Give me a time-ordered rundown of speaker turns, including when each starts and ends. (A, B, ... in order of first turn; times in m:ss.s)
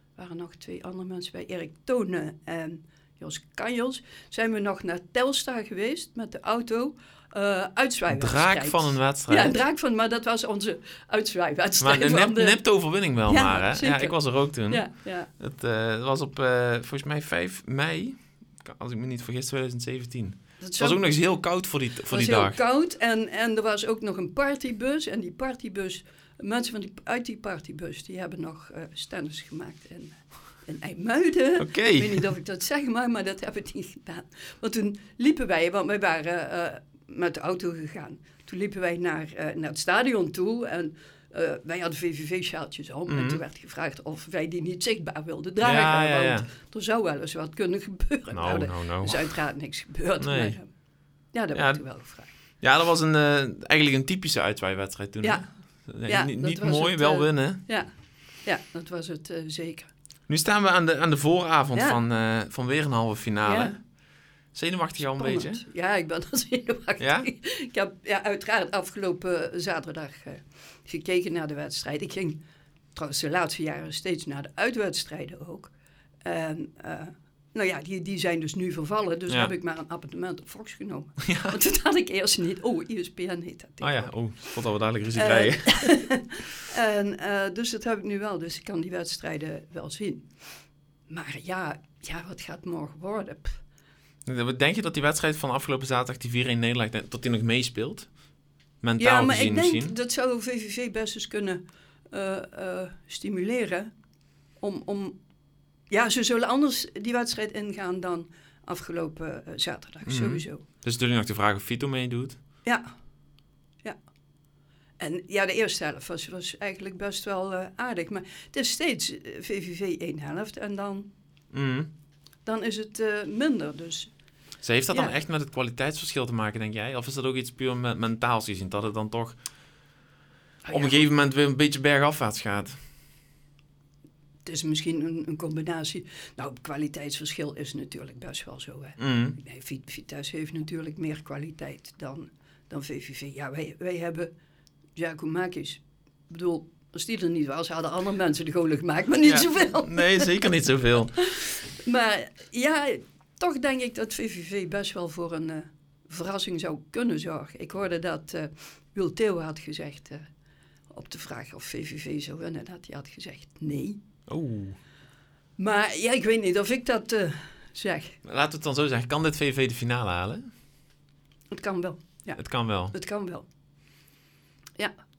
0:00.2-0:12.6 A
0:08.1-0:09.5 B
0:11.8-0:14.9 B
0:13.2-0:15.3 A
0:15.4-0:22.6 B
0:20.6-0:21.0 A
0:22.1-0:50.7 A
0:31.6-0:32.2 B
0:43.1-0:43.4 B
0:45.6-0:46.5 B
0:48.3-0:49.3 B
0:50.2-0:50.6 B
0:51.3-0:52.3 A
0:51.5-0:51.8 B
0:52.6-0:57.6 B
0:55.2-0:55.5 A
0:56.0-0:57.9 A
0:58.4-0:59.9 A
1:00.3-1:03.8 B
1:01.7-1:02.0 A
1:03.4-1:03.8 A
1:04.5-1:05.6 B
1:05.0-1:12.4 A
1:07.0-1:07.3 B
1:12.9-1:15.7 A
1:16.2-1:24.1 A
1:21.2-1:21.6 B
1:23.8-1:25.9 B
1:25.2-1:30.2 A
1:31.1-1:33.6 A
1:34.2-1:38.1 B
1:38.8-1:39.9 B
1:39.0-1:43.9 A
1:44.6-1:45.2 A
1:45.9-1:50.6 A
1:50.0-1:52.4 B
1:55.0-2:01.1 A
2:01.5-2:01.9 B
2:02.4-2:04.1 A
2:04.6-2:09.4 B
2:10.6-2:11.0 A
2:10.7-2:12.7 B
2:14.4-2:24.3 A
2:19.0-2:19.4 B
2:25.0-2:30.4 A
2:29.2-2:31.4 B
2:31.2-2:40.2 A
2:40.9-2:44.0 A
2:44.3-2:44.8 B
2:45.6-2:48.2 A
2:48.2-2:50.4 B
2:51.5-2:53.4 A
2:52.4-2:52.9 B